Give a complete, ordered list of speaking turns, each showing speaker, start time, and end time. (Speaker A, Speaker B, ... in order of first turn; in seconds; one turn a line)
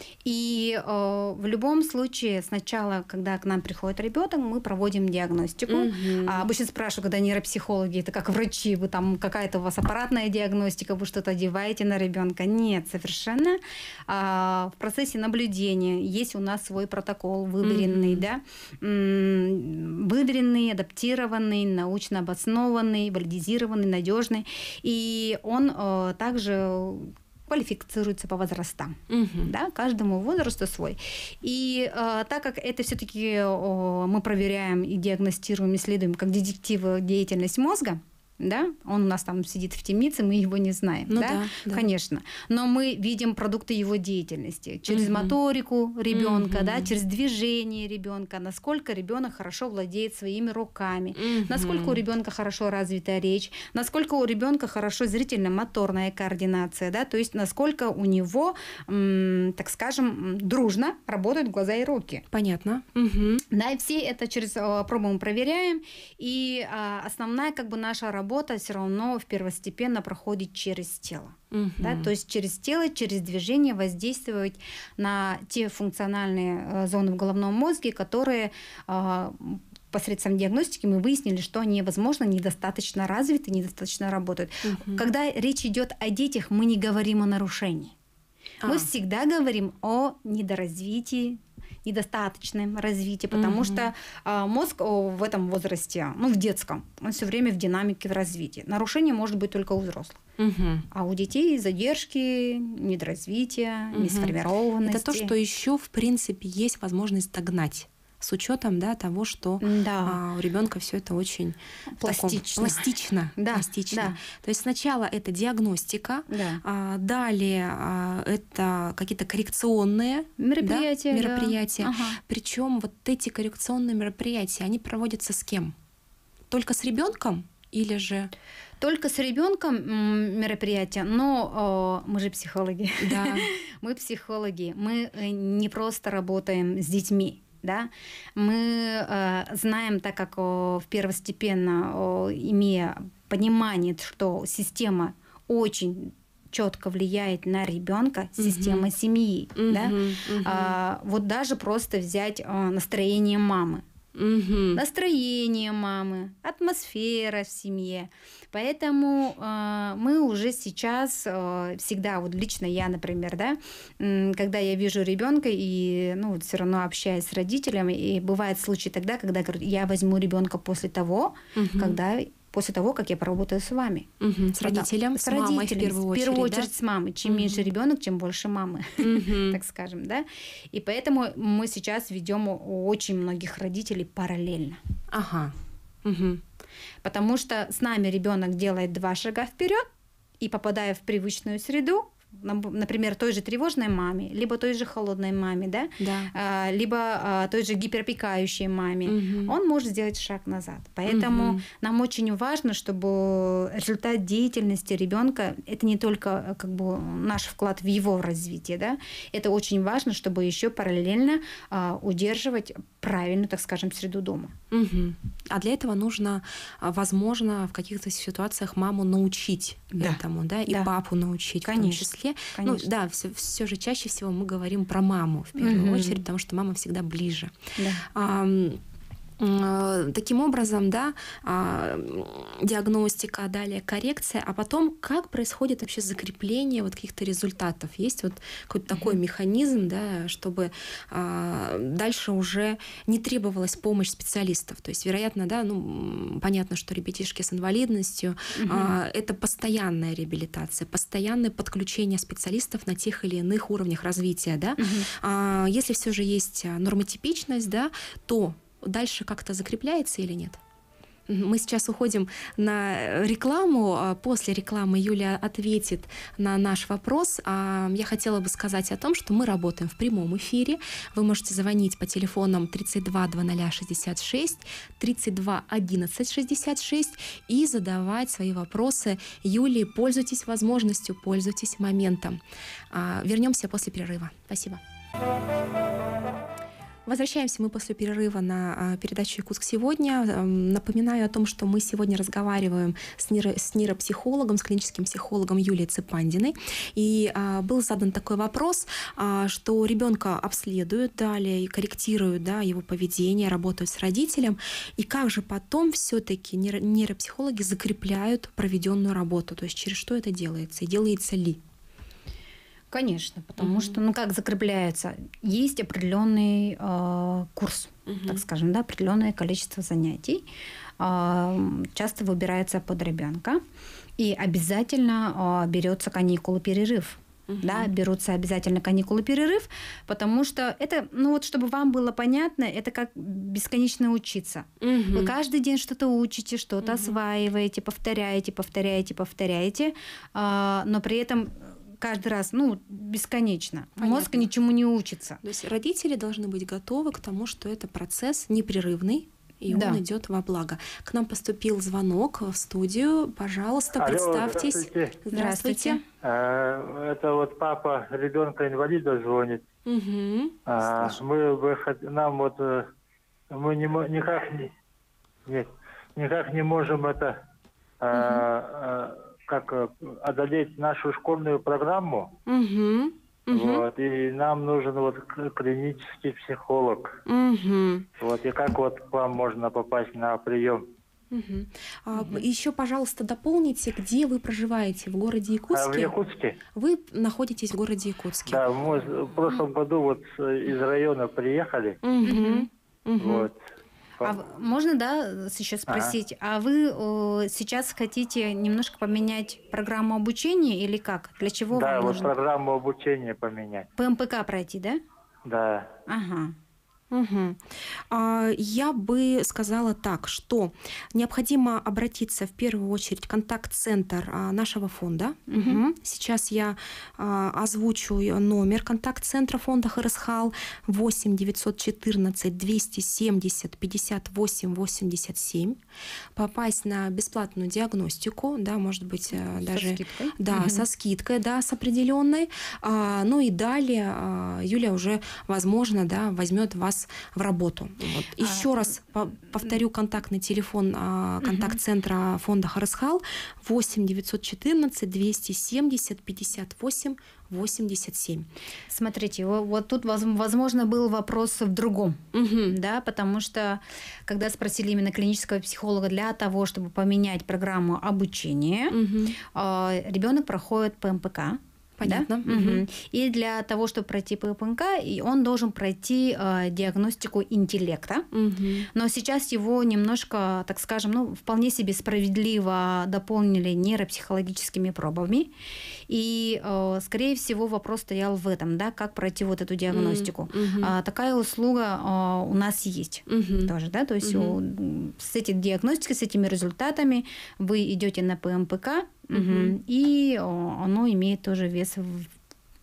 Speaker A: 0.2-62.2
Speaker B: 5.7-6.5
Speaker B: 17.6-18.2
Speaker B: 29.1-29.5
Speaker B: 41.1-41.9
Speaker B: 44.9-45.4
Speaker B: 46.1-46.9
Speaker B: 51.2-52.0
Speaker B: 62.3-63.5
Speaker A: 63.5-88.0
Speaker B: 71.5-72.1
Speaker B: 84.6-85.0
Speaker B: 88.6-88.9
Speaker A: 88.7-100.2
Speaker B: 93.3-93.9
Speaker B: 100.4-100.9
Speaker A: 100.9-105.3
Speaker B: 103.9-125.7
Speaker A: 109.6-110.2
Speaker A: 111.9-114.2
Speaker A: 116.3-116.6
Speaker A: 120.4-122.2
Speaker B: 126.5-128.3
Speaker A: 128.8-153.8
Speaker B: 133.0-133.5
Speaker B: 148.4-148.9
Speaker B: 149.6-150.8
Speaker B: 154.2-154.8
Speaker A: 154.7-174.1
Speaker B: 171.6-172.0
Speaker B: 174.2-176.7
Speaker A: 174.6-184.8
Speaker B: 177.2-177.7
Speaker B: 179.0-179.6
Speaker B: 185.1-186.4
Speaker A: 187.0-189.8
Speaker A: 190.4-214.5
Speaker B: 196.0-196.3
Speaker B: 199.1-199.6
Speaker B: 201.1-201.6
Speaker B: 214.7-227.5
Speaker A: 219.9-220.9
Speaker A: 221.6-222.9
Speaker A: 225.6-226.2
Speaker A: 227.8-228.1
Speaker B: 228.1-228.8
Speaker B: 229.4-260.6
Speaker A: 248.6-249.0
Speaker A: 254.8-255.1
Speaker B: 261.3-282.4
Speaker B: 282.9-284.8
Speaker B: 287.1-311.6
Speaker A: 312.9-320.4
Speaker B: 313.6-314.0
Speaker B: 318.1-318.4
Speaker A: 321.0-323.6
Speaker A: 324.2-345.4
Speaker B: 327.5-327.9
Speaker B: 334.8-335.3
Speaker B: 336.8-337.2
Speaker B: 344.0-344.5
Speaker B: 345.4-356.0
Speaker A: 349.7-350.0
Speaker C: 354.0-355.1
Speaker A: 355.3-356.0
Speaker C: 356.2-359.6
Speaker B: 359.9-360.6
Speaker C: 360.7-362.9
Speaker A: 360.8-361.2
Speaker C: 363.5-364.7
Speaker C: 365.5-367.3
Speaker C: 368.0-372.4
Speaker B: 368.1-368.5
Speaker B: 372.5-373.9
Speaker C: 373.5-377.1
Speaker B: 377.3-378.1
Speaker C: 378.2-380.9
Speaker B: 381.3-386.1
Speaker C: 385.7-386.6
Speaker B: 386.7-388.6
Speaker C: 388.5-392.0
Speaker B: 392.0-393.5
Speaker A: 392.2-392.7
Speaker C: 393.2-393.6
Speaker A: 394.2-402.3
Speaker C: 401.7-403.9
Speaker A: 404.0-405.0
Speaker C: 405.5-405.9
Speaker A: 406.1-406.6
Speaker B: 407.1-425.8
Speaker A: 415.5-415.8
Speaker B: 426.4-448.5
Speaker A: 429.3-430.8
Speaker A: 438.4-438.9
Speaker A: 441.4-441.8
Speaker A: 448.9-468.3
Speaker B: 452.3-452.8
Speaker B: 458.9-459.4
Speaker B: 462.0-462.8
Speaker B: 468.3-468.9
Speaker A: 468.9-475.5
Speaker A: 476.1-492.3
Speaker B: 479.9-480.9
Speaker B: 483.3-484.6
Speaker B: 489.3-489.7